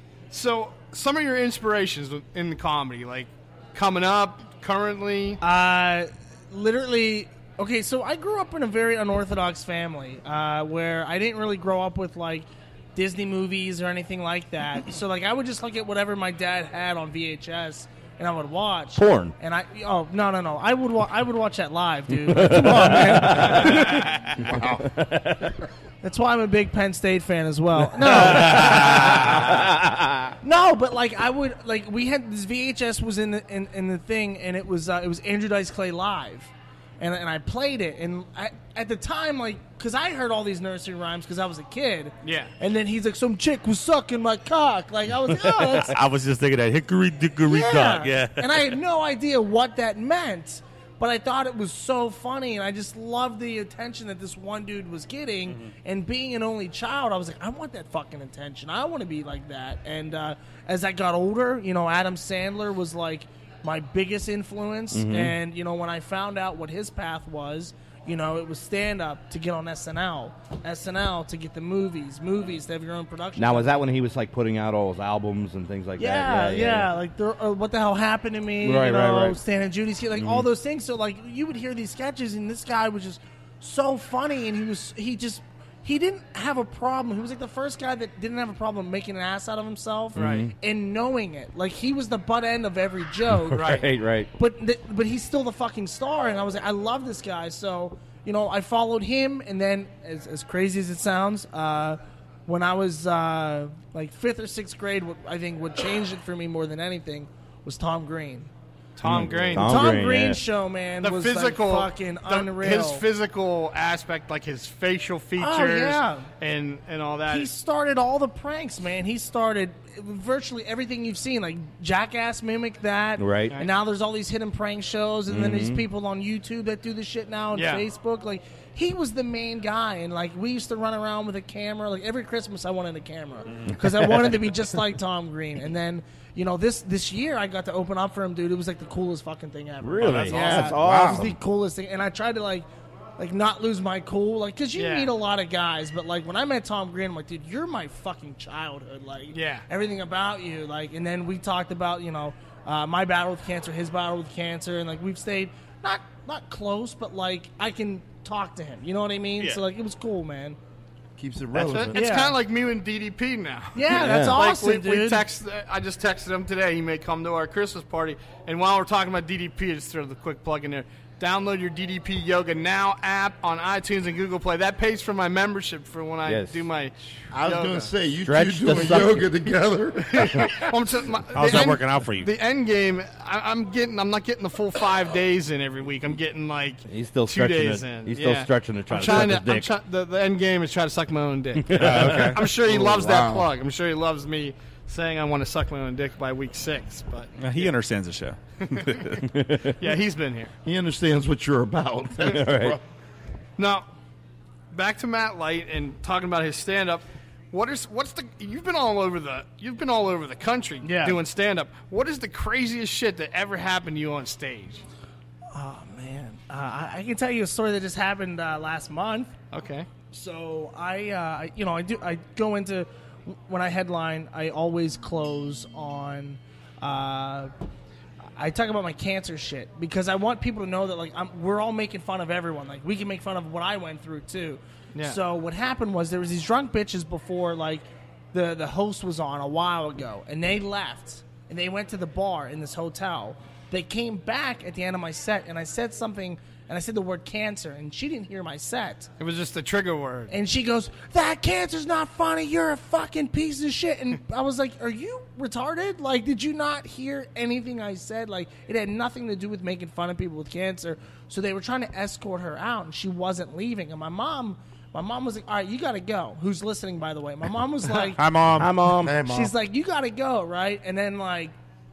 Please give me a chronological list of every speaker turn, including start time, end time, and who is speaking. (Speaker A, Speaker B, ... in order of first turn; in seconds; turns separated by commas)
Speaker A: 0.3-5.4, Speaker B: 5.4-24.0, Speaker C: 18.9-19.3, Speaker C: 22.1-25.5, Speaker D: 24.4-24.9, Speaker B: 26.0-29.1, Speaker C: 27.9-30.3, Speaker B: 30.4-46.0, Speaker A: 42.2-42.5, Speaker E: 45.6-48.7, Speaker B: 47.4-73.8, Speaker E: 55.5-55.7, Speaker C: 64.9-65.3, Speaker C: 73.4-76.9, Speaker B: 76.0-93.8, Speaker C: 78.6-79.4, Speaker C: 80.2-80.4, Speaker C: 90.1-90.5, Speaker A: 90.2-90.5, Speaker C: 93.5-94.3, Speaker A: 93.5-93.8, Speaker B: 94.3-108.5, Speaker A: 109.0-109.7, Speaker C: 109.0-110.4, Speaker B: 109.6-113.0, Speaker A: 111.0-117.5, Speaker B: 115.4-116.3, Speaker B: 117.3-142.7, Speaker C: 123.2-123.5, Speaker C: 125.3-125.8, Speaker A: 127.5-127.8, Speaker C: 139.8-141.3, Speaker D: 140.5-141.3, Speaker B: 143.2-160.6, Speaker A: 144.8-145.1, Speaker A: 149.3-149.6, Speaker D: 161.2-162.0, Speaker A: 161.5-177.9, Speaker B: 161.9-162.4, Speaker B: 163.7-165.2, Speaker C: 163.9-164.4, Speaker C: 176.2-176.6, Speaker D: 177.3-180.6, Speaker C: 178.2-179.3, Speaker A: 180.1-197.7, Speaker E: 181.3-182.3, Speaker C: 186.9-189.7, Speaker C: 191.7-192.3, Speaker E: 191.7-192.4, Speaker D: 192.2-193.5, Speaker E: 197.4-199.2, Speaker A: 199.8-200.5, Speaker D: 200.6-202.8, Speaker C: 202.2-202.8, Speaker A: 203.6-203.8, Speaker A: 204.7-214.8, Speaker B: 210.8-211.2, Speaker B: 215.5-219.3, Speaker A: 219.5-219.9, Speaker B: 220.1-227.5, Speaker B: 228.3-249.1, Speaker A: 249.2-250.3, Speaker B: 250.3-271.5, Speaker E: 268.3-268.7, Speaker D: 269.0-269.5